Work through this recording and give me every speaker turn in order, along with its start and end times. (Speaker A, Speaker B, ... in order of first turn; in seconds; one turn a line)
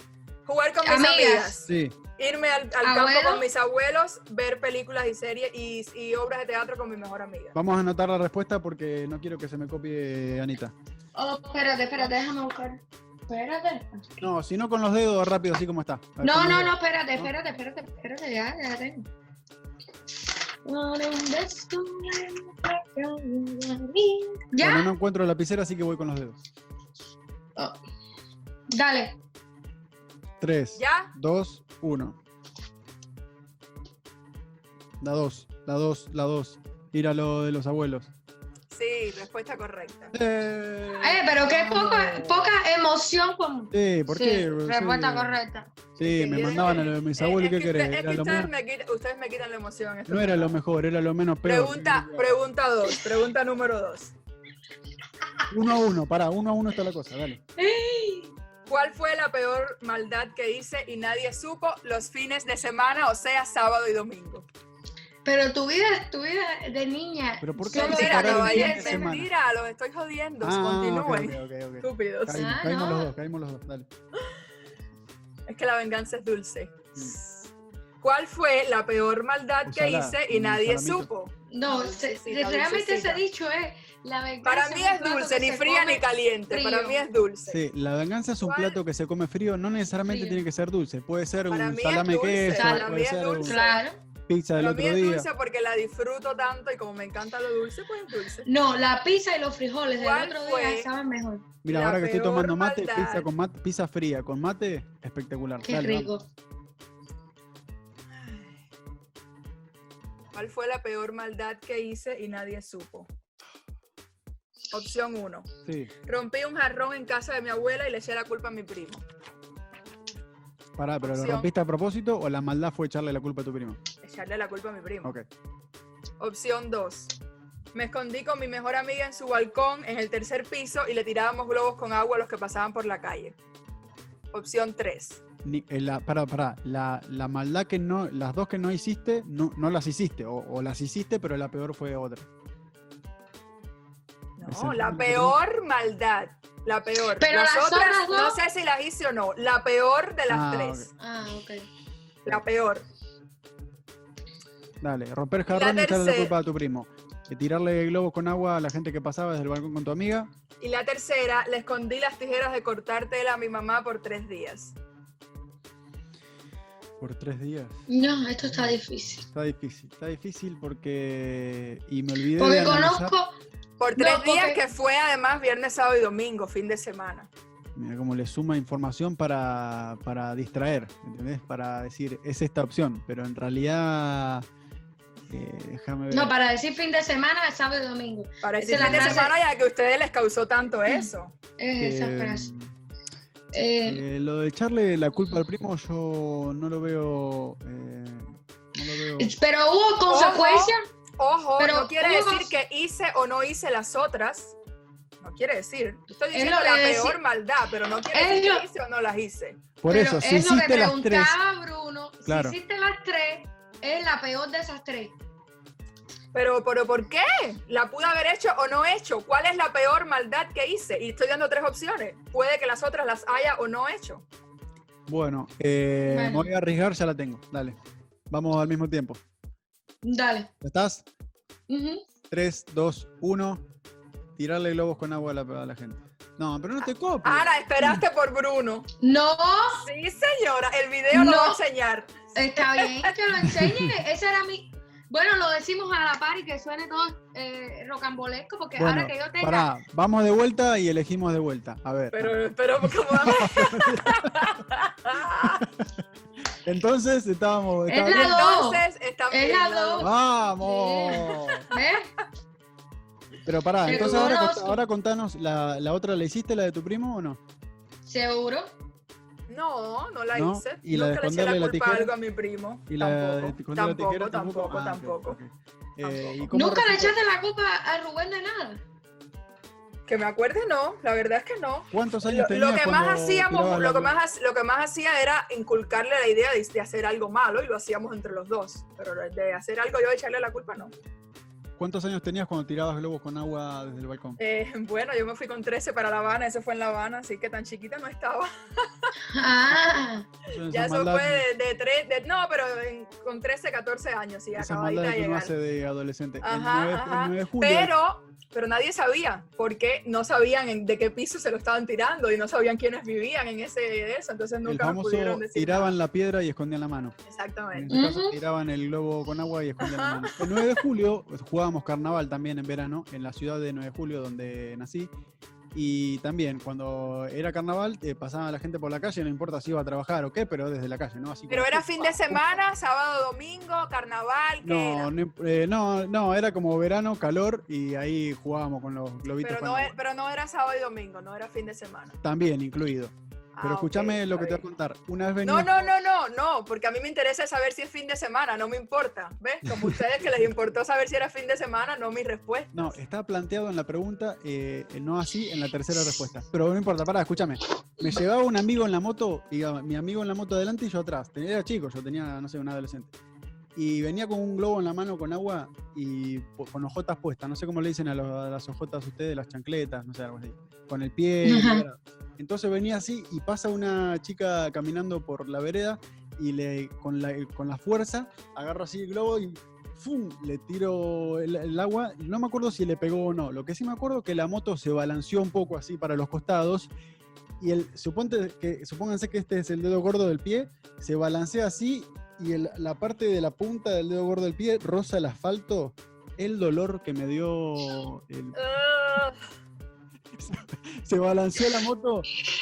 Speaker A: 0.5-7.5
Speaker B: 0.8-1.6
Speaker C: 1.6-2.0
Speaker B: 2.8-3.4
Speaker C: 7.5-10.7
Speaker B: 11.2-14.2
Speaker C: 14.2-17.3
Speaker B: 16.2-19.1
Speaker B: 20.6-24.9
Speaker C: 24.6-26.4
Speaker B: 28.7-29.1
Speaker C: 30.4-32.2
Speaker A: 30.8-31.1
Speaker C: 35.0-38.1
Speaker A: 38.7-40.1
Speaker C: 40.1-42.5
Speaker B: 41.0-45.7
Speaker C: 43.7-45.4
Speaker C: 46.0-48.5
Speaker A: 46.0-50.5
Speaker C: 50.1-52.4
Speaker A: 51.4-54.1
Speaker C: 55.5-57.4
Speaker B: 57.5-58.3
Speaker A: 58.7-64.4
Speaker B: 65.2-69.1
Speaker C: 67.4-69.3
Speaker A: 67.7-72.4
Speaker C: 70.4-73.9
Speaker B: 72.3-73.1
Speaker A: 75.5-77.5
Speaker A: 78.0-83.2
Speaker C: 79.6-81.1
Speaker B: 81.5-87.0
Speaker A: 84.4-87.6
Speaker C: 87.5-93.6
Speaker A: 88.4-88.8
Speaker B: 90.1-90.4
Speaker A: 91.5-93.8
Speaker B: 92.5-94.0
Speaker C: 94.3-95.3
Speaker A: 94.5-98.5
Speaker B: 98.4-101.5
Speaker A: 99.9-100.9
Speaker C: 101.6-106.1
Speaker A: 101.7-103.3
Speaker B: 105.6-106.3
Speaker A: 108.1-108.6
Speaker A: 110.3-113.1
Speaker A: 114.7-115.5
Speaker C: 115.6-115.9
Speaker A: 116.0-119.0
Speaker C: 120.8-123.8
Speaker A: 121.0-121.5
Speaker A: 124.0-125.1
Speaker A: 126.2-127.1
Speaker A: 127.7-133.3
Speaker A: 134.3-135.2
Speaker C: 135.4-142.3
Speaker A: 144.4-150.9
Speaker C: 144.4-145.3
Speaker B: 147.2-148.4
Speaker C: 150.3-150.9
Speaker B: 151.0-151.7
Speaker A: 152.2-152.8
Speaker C: 154.8-160.3
Speaker A: 155.5-156.3
Speaker A: 160.6-164.7
Speaker C: 167.0-167.8
Speaker B: 167.9-169.3
Speaker C: 168.4-168.8
Speaker C: 169.3-173.1
Speaker B: 172.3-173.3
Speaker A: 173.8-177.3
Speaker B: 173.9-174.6
Speaker C: 177.7-184.5
Speaker C: 185.3-186.3
Speaker B: 186.1-189.3
Speaker A: 188.4-191.3
Speaker C: 188.7-189.2
Speaker B: 190.9-192.5
Speaker C: 191.8-192.7
Speaker B: 193.5-194.0
Speaker C: 193.8-199.3
Speaker B: 199.2-200.8
Speaker A: 200.1-204.5
Speaker B: 201.6-202.5
Speaker A: 205.2-209.6
Speaker B: 206.3-207.2
Speaker B: 208.1-208.6
Speaker C: 209.8-211.4
Speaker B: 209.9-215.1
Speaker C: 212.2-212.6
Speaker A: 216.3-224.2
Speaker C: 225.1-227.8
Speaker B: 226.1-226.5
Speaker C: 228.3-229.2
Speaker B: 230.0-230.5
Speaker C: 230.6-231.0
Speaker B: 231.7-232.0
Speaker C: 232.3-233.6
Speaker C: 234.4-238.0
Speaker A: 237.2-238.9
Speaker B: 239.0-239.8
Speaker A: 239.8-243.1
Speaker B: 241.1-241.6
Speaker B: 242.3-249.7
Speaker C: 243.4-244.0
Speaker C: 248.8-254.5
Speaker A: 252.1-255.6
Speaker C: 255.6-256.0
Speaker C: 256.6-258.4
Speaker B: 257.9-262.1
Speaker A: 258.1-260.1
Speaker C: 260.0-261.6
Speaker A: 261.5-261.8
Speaker C: 263.4-267.4
Speaker B: 263.8-264.8
Speaker B: 268.0-268.7
Speaker A: 269.5-275.4
Speaker C: 270.3-272.1
Speaker C: 272.9-277.2
Speaker A: 276.0-276.4
Speaker B: 276.5-278.8
Speaker A: 280.1-290.9
Speaker C: 281.9-284.1
Speaker C: 291.8-294.4
Speaker A: 294.4-299.1
Speaker B: 299.3-300.3
Speaker C: 300.4-301.4
Speaker A: 300.7-305.5
Speaker C: 304.5-307.9
Speaker A: 306.4-315.9
Speaker C: 314.6-317.1
Speaker A: 317.2-317.9
Speaker C: 317.7-325.1
Speaker B: 317.9-318.4
Speaker A: 319.8-320.8
Speaker C: 325.7-332.6
Speaker A: 331.5-335.1
Speaker C: 334.6-339.9
Speaker A: 339.4-342.2
Speaker C: 342.2-345.8
Speaker A: 343.5-344.6
Speaker A: 345.4-352.9
Speaker C: 349.6-350.0
Speaker C: 352.7-363.1
Speaker C: 363.8-386.9
Speaker B: 371.4-371.8
Speaker C: 387.6-398.6
Speaker A: 398.5-399.4
Speaker C: 400.3-402.3